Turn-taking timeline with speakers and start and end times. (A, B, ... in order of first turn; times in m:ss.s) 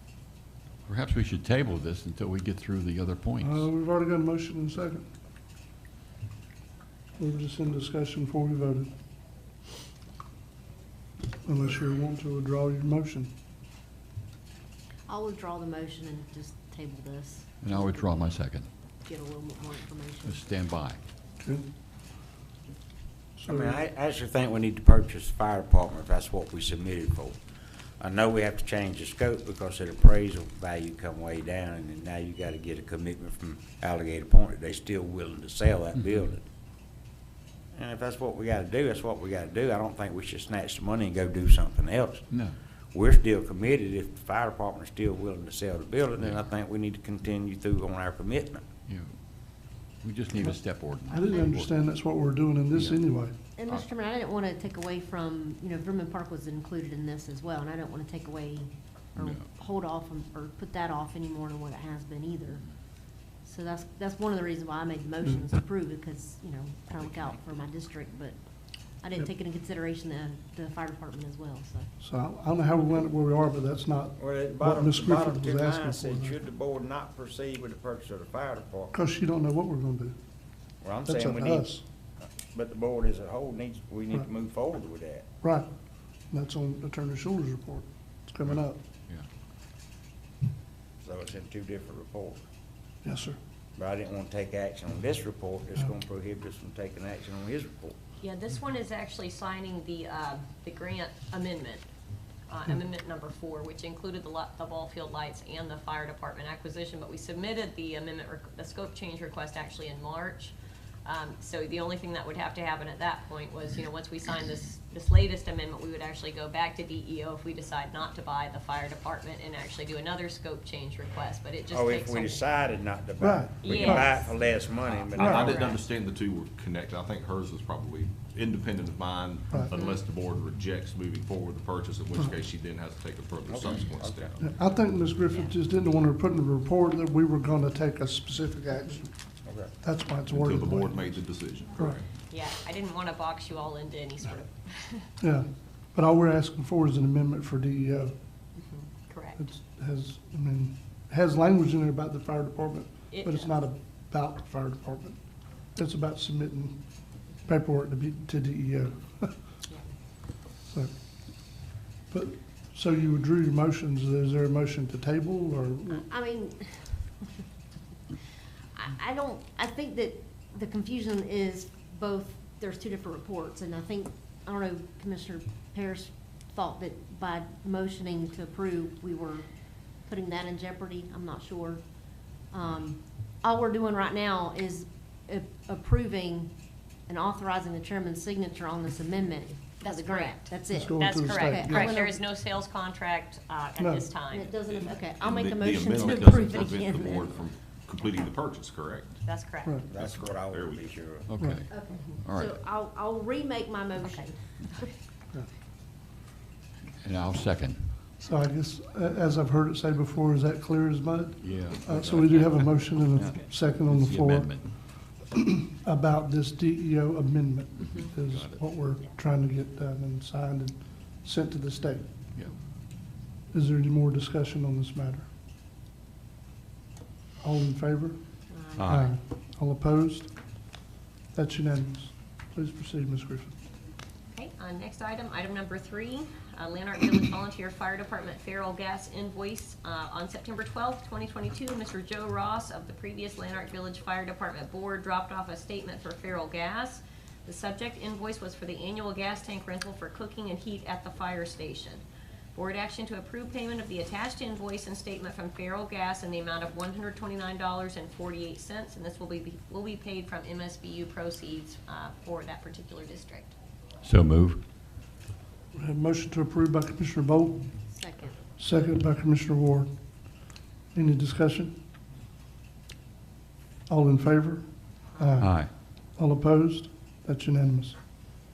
0:00.9-0:03.7 A
0:03.4-0:05.0 B
0:07.2-0:08.9 B
0:11.4-0:13.3 B
0:15.1-0:18.3 C
0:17.6-0:18.7 A
0:19.0-0:20.4 C
0:20.2-0:21.0 A
0:21.4-0:21.6 B
0:23.4-0:23.8 B
0:23.4-0:27.4 D
0:28.0-0:36.4 D
0:37.7-0:42.3 D
0:42.3-0:42.6 A
0:42.9-0:48.6 D
0:46.2-0:46.4 A
0:48.9-0:51.7 A
0:51.1-0:53.4 B
0:52.7-0:53.0 A
0:53.6-1:02.6 C
0:59.2-0:59.4 A
1:03.2-1:11.9 C
1:12.0-1:16.3 B
1:14.2-1:18.9 D
1:18.9-1:20.2 B
1:20.8-1:25.2 D
1:21.0-1:21.8 B
1:25.4-1:28.8 B
1:31.0-1:32.4 D
1:33.0-1:33.4 B
1:33.8-1:37.9 D
1:38.2-1:41.8 E
1:42.5-2:02.4 E
2:01.7-2:05.6 D
2:03.2-2:04.1 B
2:03.6-2:04.3 E
2:04.9-2:14.4 F
2:05.2-2:05.6 B
2:05.5-2:05.8 E
2:09.7-2:10.0 E
2:13.5-2:14.4 D
2:14.4-2:21.1 B
2:19.4-2:19.7 D
2:20.3-2:22.1 F
2:21.7-2:22.0 B
2:22.3-2:25.1 E
2:25.2-2:28.2 B
2:28.6-2:29.5 E
2:29.4-2:39.6 B
2:33.1-2:33.5 E
2:40.7-2:41.5 B
2:42.1-2:46.0 B
2:45.9-2:47.2 C
2:48.7-3:01.8 C
3:02.4-3:12.2 C
3:09.8-3:14.6 E
3:10.7-3:11.9 B
3:13.8-3:14.1 B
3:14.3-3:17.4 C
3:14.6-3:19.2 F
3:19.2-3:19.9 E
3:19.9-3:21.2 D
3:20.0-3:20.9 F
3:21.2-3:22.6 A
3:21.4-3:21.6 B
3:21.7-3:24.8 C
3:21.9-3:22.2 E
3:24.0-3:24.9 E
3:27.0-3:27.9 A
3:28.2-3:42.2 B
3:31.4-3:35.0 A
3:33.2-3:33.5 E
3:38.0-3:38.6 A
3:43.5-3:45.3 B
3:47.4-3:50.7 B
3:48.5-3:48.9 C
3:48.8-3:49.1 A
3:51.3-3:53.6 B
3:54.3-4:12.0 E
4:12.5-4:23.5 E
4:24.0-4:24.6 A
4:25.7-4:27.9 B
4:27.9-4:28.4 C
4:28.6-4:30.4 B
4:30.9-4:31.8 B
4:33.9-4:38.0 B
4:35.4-4:35.7 A